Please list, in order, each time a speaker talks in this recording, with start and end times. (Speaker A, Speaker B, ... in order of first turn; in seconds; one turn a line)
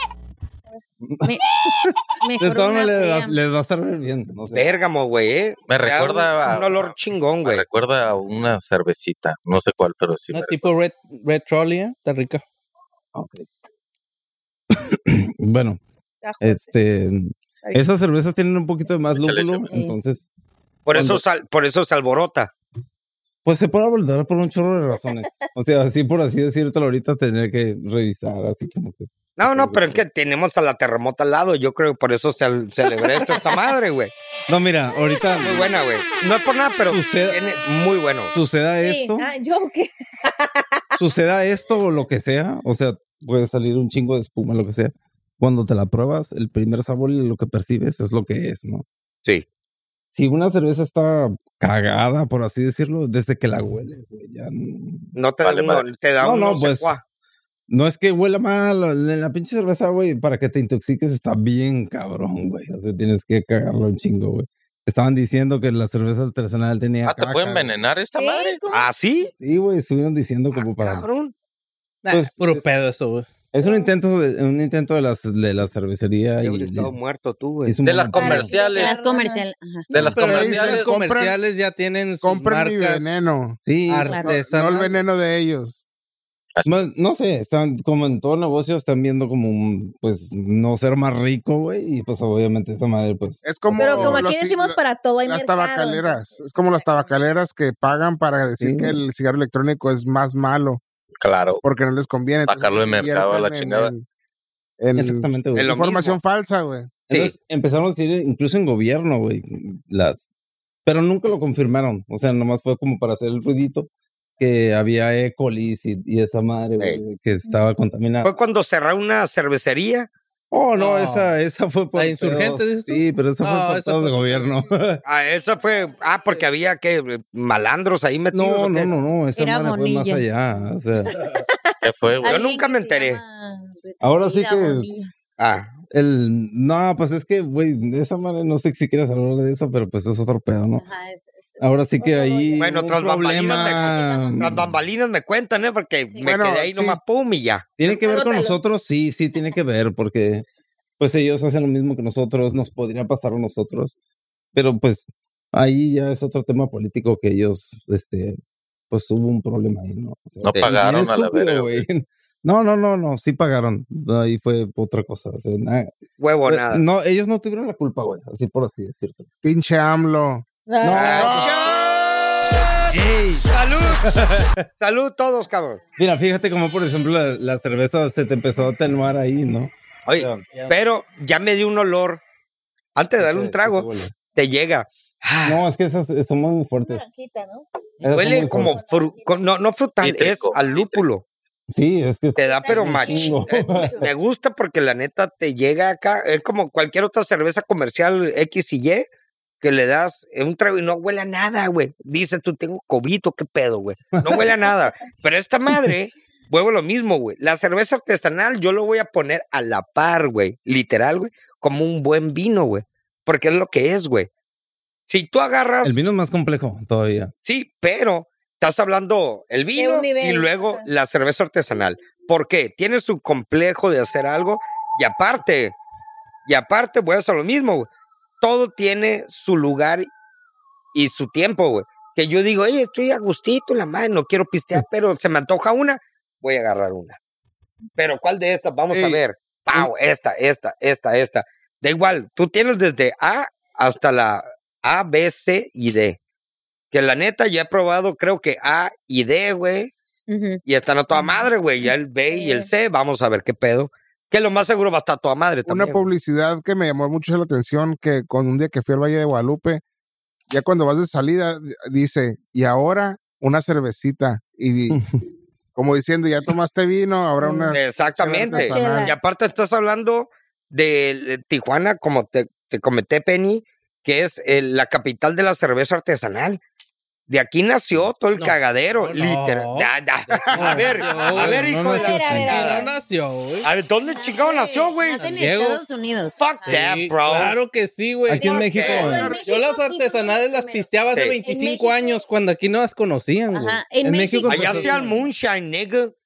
Speaker A: 1.0-4.7
Speaker B: 2.2-3.4
Speaker C: 4.5-7.6
Speaker D: 5.7-10.7
Speaker E: 10.3-12.4
Speaker A: 13.1-13.4
Speaker A: 14.7-15.8
Speaker F: 16.2-16.7
Speaker A: 16.4-20.3
Speaker D: 19.1-19.7
Speaker C: 20.9-22.5
Speaker A: 20.9-21.2
Speaker A: 23.4-30.0
Speaker F: 25.0-25.3
Speaker C: 29.4-34.1
Speaker A: 34.5-35.7
Speaker C: 35.4-38.3
Speaker A: 36.9-37.4
Speaker A: 38.3-39.3
Speaker F: 38.8-40.6
Speaker A: 41.0-48.8
Speaker A: 50.1-55.1
Speaker C: 55.1-57.0
Speaker D: 55.4-55.8
Speaker A: 56.2-57.0
Speaker A: 57.7-67.7
Speaker D: 67.0-68.6
Speaker F: 68.1-68.9
Speaker C: 68.7-69.3
Speaker A: 69.4-71.0
Speaker C: 70.5-71.3
Speaker E: 72.0-73.3
Speaker A: 72.1-72.7
Speaker A: 73.5-76.9
Speaker F: 73.6-73.9
Speaker C: 76.4-77.8
Speaker A: 77.7-78.5
Speaker D: 77.8-79.0
Speaker F: 78.1-79.4
Speaker B: 78.3-80.0
Speaker D: 79.9-80.9
Speaker E: 80.0-83.1
Speaker G: 80.2-81.4
Speaker G: 82.2-83.6
Speaker A: 83.6-84.2
Speaker E: 83.9-85.0
Speaker B: 84.0-84.4
Speaker G: 84.2-85.8
Speaker A: 86.7-94.3
Speaker G: 93.4-100.8
Speaker F: 93.8-96.9
Speaker A: 98.6-99.0
Speaker D: 101.2-101.6
Speaker G: 101.6-104.0
Speaker D: 102.5-103.9
Speaker G: 104.8-107.0
Speaker A: 104.9-105.9
Speaker C: 105.5-106.2
Speaker C: 107.1-107.3
Speaker A: 107.1-110.3
Speaker A: 110.8-113.9
Speaker A: 114.4-118.3
Speaker C: 118.2-120.1
Speaker A: 120.5-125.0
Speaker E: 120.8-121.3
Speaker E: 121.9-124.5
Speaker C: 125.0-128.9
Speaker A: 128.3-131.2
Speaker B: 129.3-130.2
Speaker D: 131.8-132.3
Speaker B: 132.2-135.1
Speaker C: 132.2-133.2
Speaker A: 134.0-134.9
Speaker C: 135.4-135.7
Speaker A: 135.9-140.8
Speaker B: 140.8-142.4
Speaker A: 141.6-144.7
Speaker F: 142.0-142.6
Speaker C: 142.6-147.7
Speaker B: 143.3-144.6
Speaker G: 146.2-147.0
Speaker A: 147.8-150.4
Speaker F: 147.9-148.5
Speaker A: 151.0-153.9
Speaker A: 154.5-158.4
Speaker A: 158.9-165.9
Speaker D: 160.4-161.8
Speaker C: 160.5-160.8
Speaker C: 166.2-166.8
Speaker A: 166.4-169.3
Speaker G: 169.4-170.4
Speaker F: 170.7-171.3
Speaker A: 170.8-171.6
Speaker C: 170.9-172.9
Speaker G: 171.0-171.8
Speaker A: 172.9-174.6
Speaker C: 173.4-174.1
Speaker C: 174.7-175.8
Speaker A: 176.0-180.4
Speaker C: 180.1-182.2
Speaker C: 182.9-185.6
Speaker A: 183.2-184.1
Speaker A: 185.4-187.1
Speaker F: 186.8-187.6
Speaker A: 188.0-188.8
Speaker C: 188.1-191.2
Speaker F: 188.3-189.3
Speaker D: 190.0-191.0
Speaker A: 191.7-194.1
Speaker C: 192.4-199.1
Speaker B: 192.4-194.1
Speaker C: 199.6-214.3
Speaker A: 204.1-204.5
Speaker A: 205.7-205.9
Speaker C: 215.1-216.0
Speaker A: 215.8-217.3
Speaker C: 217.4-225.7
Speaker F: 219.7-220.9
Speaker C: 226.4-227.9
Speaker C: 228.4-230.1
Speaker C: 230.9-237.2
Speaker C: 238.0-246.2
Speaker G: 238.9-239.2
Speaker C: 246.9-249.9
Speaker B: 250.3-250.6
Speaker C: 250.7-256.0
Speaker F: 252.3-252.7
Speaker G: 255.7-259.8
Speaker G: 260.5-265.0
Speaker A: 264.9-265.1
Speaker G: 265.7-269.1
Speaker C: 267.7-276.6
Speaker F: 268.5-269.1
Speaker C: 277.3-282.9
Speaker E: 278.3-279.9
Speaker E: 280.5-281.7
Speaker A: 281.3-282.7
Speaker F: 281.8-282.9
Speaker E: 282.5-283.7
Speaker C: 283.6-285.3
Speaker B: 284.0-286.9
Speaker E: 285.2-285.8
Speaker C: 286.4-287.6
Speaker E: 286.7-293.8
Speaker A: 288.3-289.4
Speaker B: 288.5-290.9
Speaker C: 288.5-289.3
Speaker C: 291.1-291.4
Speaker B: 291.4-292.2
Speaker B: 293.5-295.0
Speaker A: 294.0-294.9
Speaker C: 294.5-296.1
Speaker E: 294.5-295.2